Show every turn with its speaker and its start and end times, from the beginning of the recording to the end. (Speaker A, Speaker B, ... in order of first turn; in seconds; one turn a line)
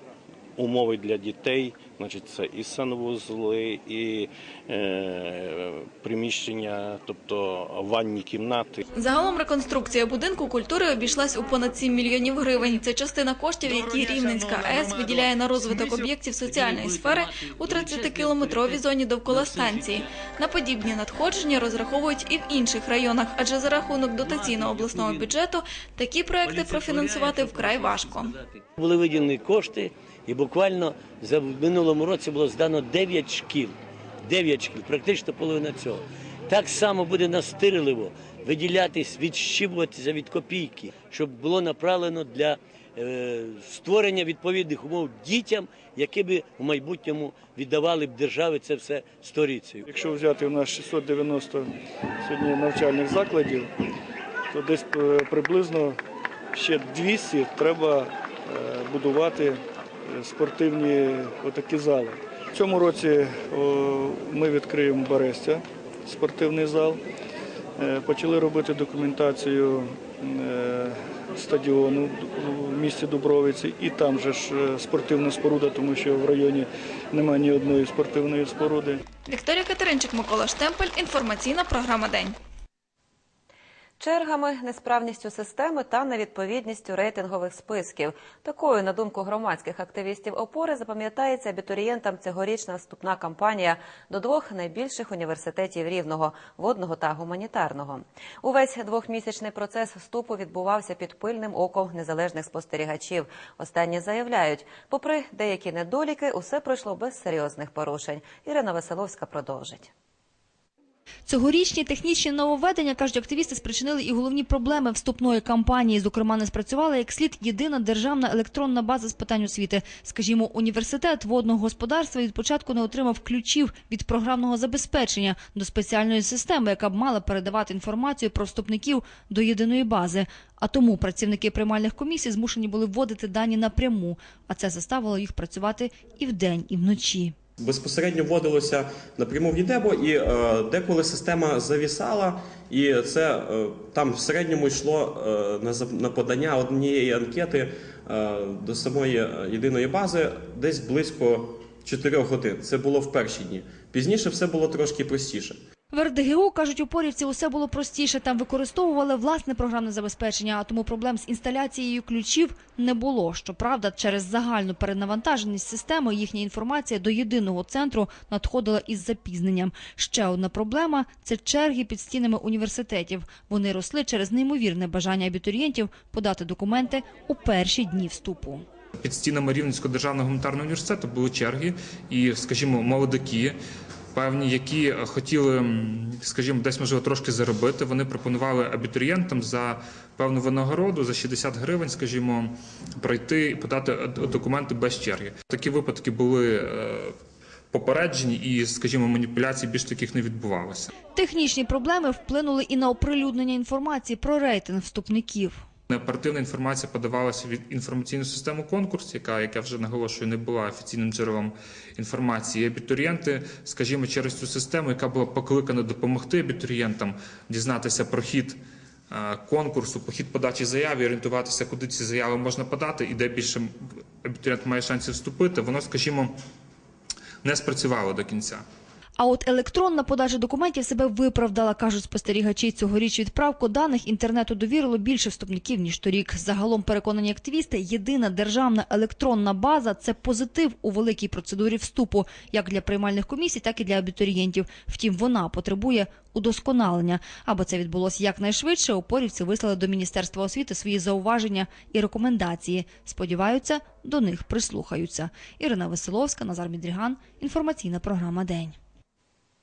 Speaker A: 0.6-8.8
Speaker B: 8.9-28.3
Speaker C: 16.5-17.1
Speaker C: 17.7-18.7
Speaker C: 19.3-19.8
Speaker C: 24.2-25.2
Speaker C: 26.5-49.8
Speaker D: 49.8-51.7
Speaker D: 52.2-53.7
Speaker D: 54.5-56.0
Speaker D: 56.5-67.0
Speaker D: 67.8-79.0
Speaker B: 79.3-82.3
Speaker E: 84.0-109.9
Speaker F: 111.3-137.3
Speaker G: 137.6-155.6
Speaker F: 155.9-178.6
Speaker H: 179.0-183.5
Speaker H: 184.1-197.1
Speaker H: 197.7-200.9
Speaker F: 201.1-205.6
Speaker H: 205.9-218.6
Speaker H: 219.1-223.7
Speaker H: 224.2-226.3
Speaker H: 227.4-228.6
Speaker F: 229.2-258.8